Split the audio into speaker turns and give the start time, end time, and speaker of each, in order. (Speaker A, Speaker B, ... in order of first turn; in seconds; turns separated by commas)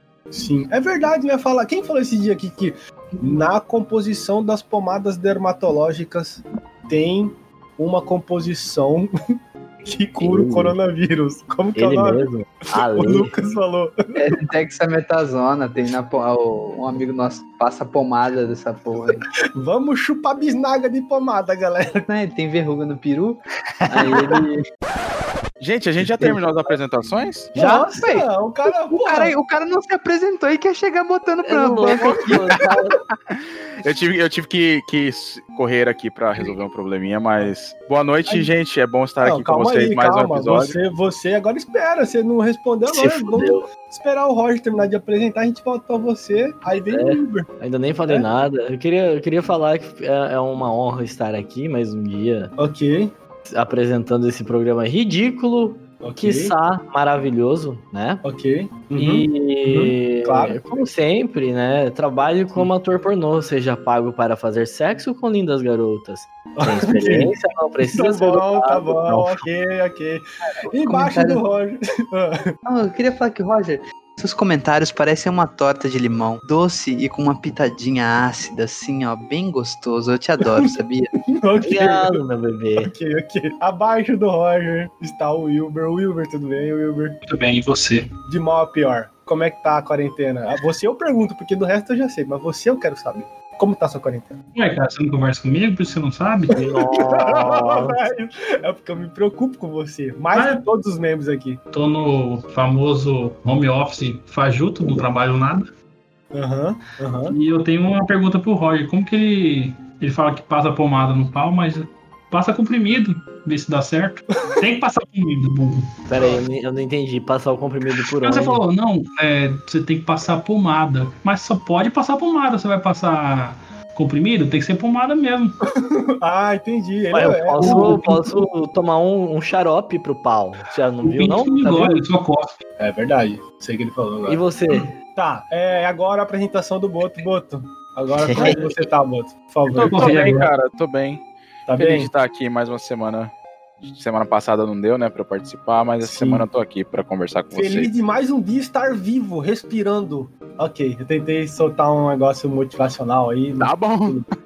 Speaker A: 0.3-9.1, Speaker A: 9.9-12.2, Speaker B: 10.2-10.8, Speaker B: 11.8-13.3, Speaker A: 12.8-14.2, Speaker C: 14.2-19.2, Speaker A: 19.6-22.1, Speaker C: 22.1-24.6, Speaker D: 25.6-27.5, Speaker A: 26.0-26.4, Speaker A: 27.5-29.3, Speaker C: 27.6-28.3, Speaker C: 28.9-32.4, Speaker B: 31.4-33.0, Speaker D: 33.3-40.8, Speaker A: 39.2-47.5, Speaker B: 42.9-43.7, Speaker B: 46.9-52.5, Speaker A: 52.6-53.1, Speaker B: 53.5-58.2, Speaker A: 56.0-56.6, Speaker A: 58.2-60.6, Speaker B: 59.0-69.5, Speaker A: 66.6-72.5, Speaker C: 70.8-71.4, Speaker C: 72.7-81.1, Speaker A: 80.4-80.8, Speaker A: 81.3-82.2, Speaker B: 81.6-82.9, Speaker A: 82.8-87.2, Speaker E: 87.3-88.1, Speaker A: 88.3-94.4, Speaker E: 94.6-96.6, Speaker B: 96.6-98.0, Speaker A: 96.9-101.6, Speaker E: 100.3-100.7, Speaker E: 101.7-105.6, Speaker A: 106.3-107.3, Speaker E: 107.3-116.4, Speaker B: 116.1-118.6, Speaker E: 118.2-125.5, Speaker A: 125.8-128.0, Speaker B: 127.1-131.9, Speaker E: 127.6-128.2, Speaker E: 131.0-132.6, Speaker A: 132.8-134.4, Speaker B: 134.3-134.9, Speaker A: 135.0-140.3, Speaker B: 138.2-138.7, Speaker E: 139.7-140.5, Speaker D: 139.7-143.3, Speaker A: 141.7-142.1, Speaker D: 143.8-147.9, Speaker A: 146.0-146.5, Speaker A: 147.5-154.3, Speaker D: 153.6-154.2